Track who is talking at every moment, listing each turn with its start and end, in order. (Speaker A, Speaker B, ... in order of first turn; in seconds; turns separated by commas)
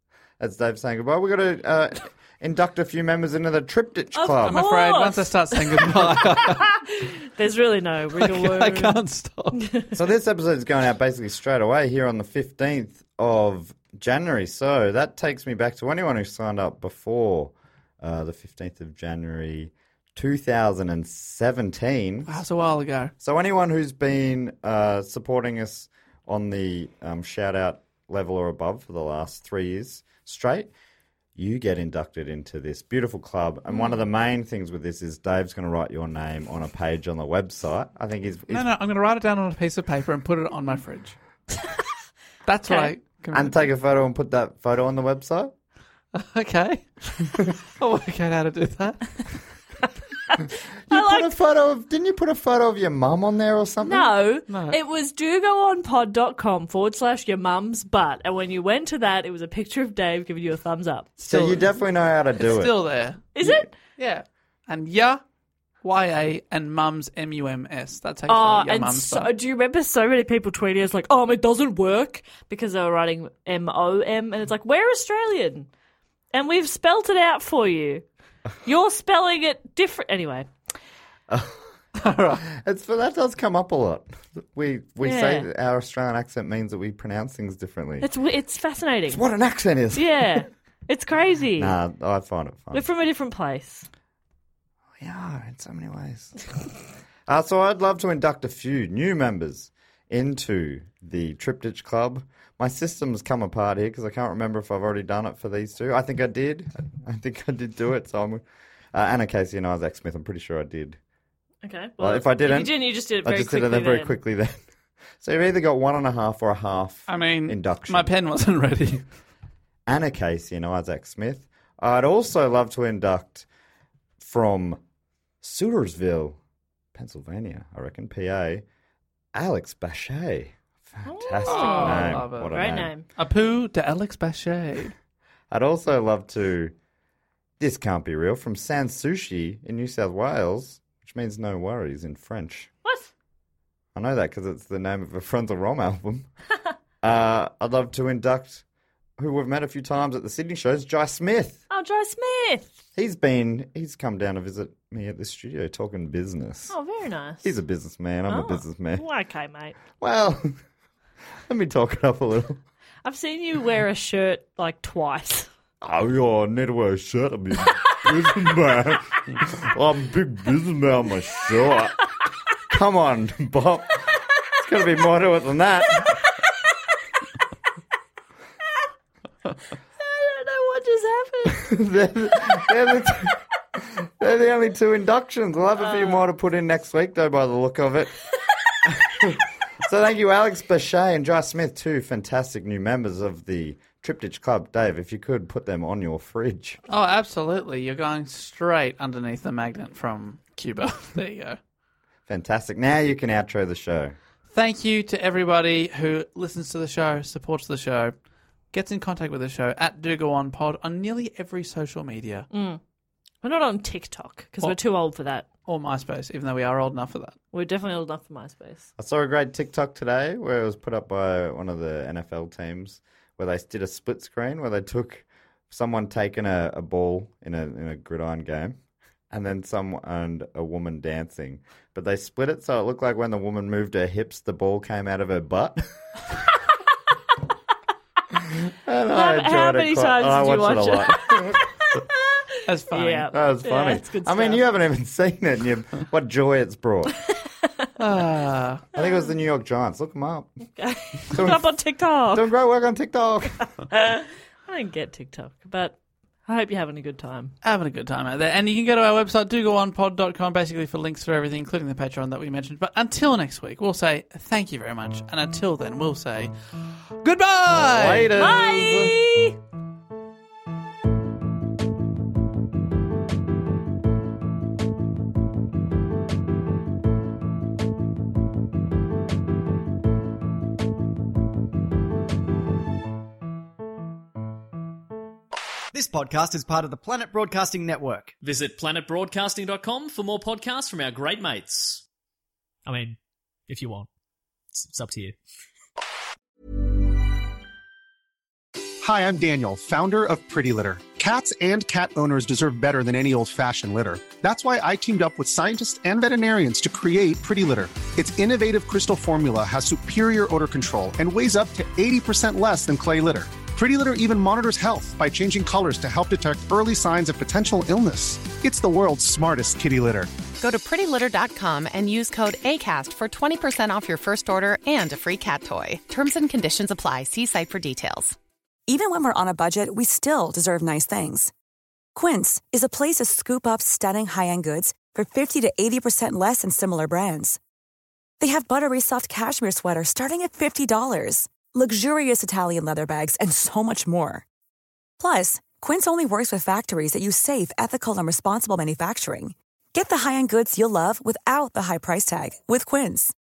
Speaker A: 0.4-4.6, Speaker B: 4.1-9.0, Speaker C: 4.4-6.7, Speaker C: 8.1-9.7, Speaker A: 9.9-22.4, Speaker C: 22.3-23.1, Speaker A: 23.2-30.7, Speaker A: 31.3-38.7, Speaker C: 38.5-41.2, Speaker C: 42.5-43.6, Speaker B: 42.7-42.9, Speaker A: 43.3-45.5, Speaker C: 46.1-49.3, Speaker B: 50.3-51.3, Speaker A: 50.9-54.1, Speaker B: 53.8-61.1, Speaker C: 54.5-54.8, Speaker C: 61.2-61.7, Speaker A: 61.2-62.8, Speaker C: 62.4-63.3, Speaker B: 63.3-63.7, Speaker C: 63.9-65.2, Speaker C: 65.8-69.3, Speaker B: 68.3-75.7, Speaker B: 76.3-78.0, Speaker B: 78.6-80.5, Speaker A: 81.3-81.7, Speaker C: 81.9-82.4, Speaker A: 82.4-88.1, Speaker B: 85.0-85.5, Speaker B: 88.0-89.2, Speaker A: 89.1-90.4, Speaker B: 89.9-91.8, Speaker A: 91.5-92.8, Speaker B: 92.7-93.9, Speaker A: 95.0-96.3, Speaker A: 97.3-111.0, Speaker B: 111.6-114.1, Speaker A: 112.0-114.6, Speaker A: 115.2-118.1, Speaker C: 117.1-119.0, Speaker A: 119.8-123.5, Speaker A: 124.2-124.8, Speaker A: 125.4-126.4, Speaker A: 126.9-128.6, Speaker A: 129.3-132.9, Speaker B: 131.0-133.0, Speaker C: 131.4-134.9, Speaker A: 135.5-136.7, Speaker A: 137.6-142.7, Speaker B: 142.8-143.1, Speaker A: 143.9-146.3, Speaker A: 147.0-148.6, Speaker A: 149.2-151.6, Speaker B: 151.7-152.8, Speaker A: 152.9-156.7, Speaker B: 156.7-157.5, Speaker A: 157.4-159.0, Speaker B: 158.3-159.8, Speaker A: 160.0-160.6, Speaker A: 161.5-162.6, Speaker B: 163.0-165.5, Speaker A: 165.8-172.1, Speaker A: 172.6-176.2, Speaker B: 180.0-181.7, Speaker A: 181.4-188.2, Speaker A: 188.8-196.8, Speaker C: 196.9-201.6, Speaker A: 202.3-204.1, Speaker C: 204.5-208.1, Speaker C: 208.7-212.5, Speaker B: 212.5-212.8, Speaker B: 213.4-215.4, Speaker C: 215.6-217.4, Speaker B: 217.5-218.9, Speaker A: 219.0-228.8, Speaker A: 229.3-235.9, Speaker A: 238.4-242.0, Speaker B: 239.1-244.7, Speaker C: 242.7-243.3, Speaker A: 243.3-247.2, Speaker C: 248.0-248.8, Speaker A: 248.9-250.5, Speaker B: 250.8-252.5, Speaker A: 251.2-253.7, Speaker B: 253.9-257.5, Speaker C: 257.6-266.5, Speaker C: 267.2-268.3, Speaker A: 267.7-269.1, Speaker B: 268.4-269.6, Speaker D: 285.9-288.4, Speaker E: 288.4-292.0, Speaker E: 292.9-294.1, Speaker E: 294.7-295.4, Speaker F: 299.0-320.3, Speaker G: 320.6-328.4, Speaker H: 328.9-331.5, Speaker H: 332.1-337.6, Speaker H: 338.4-344.4, Speaker H: 345.2-353.3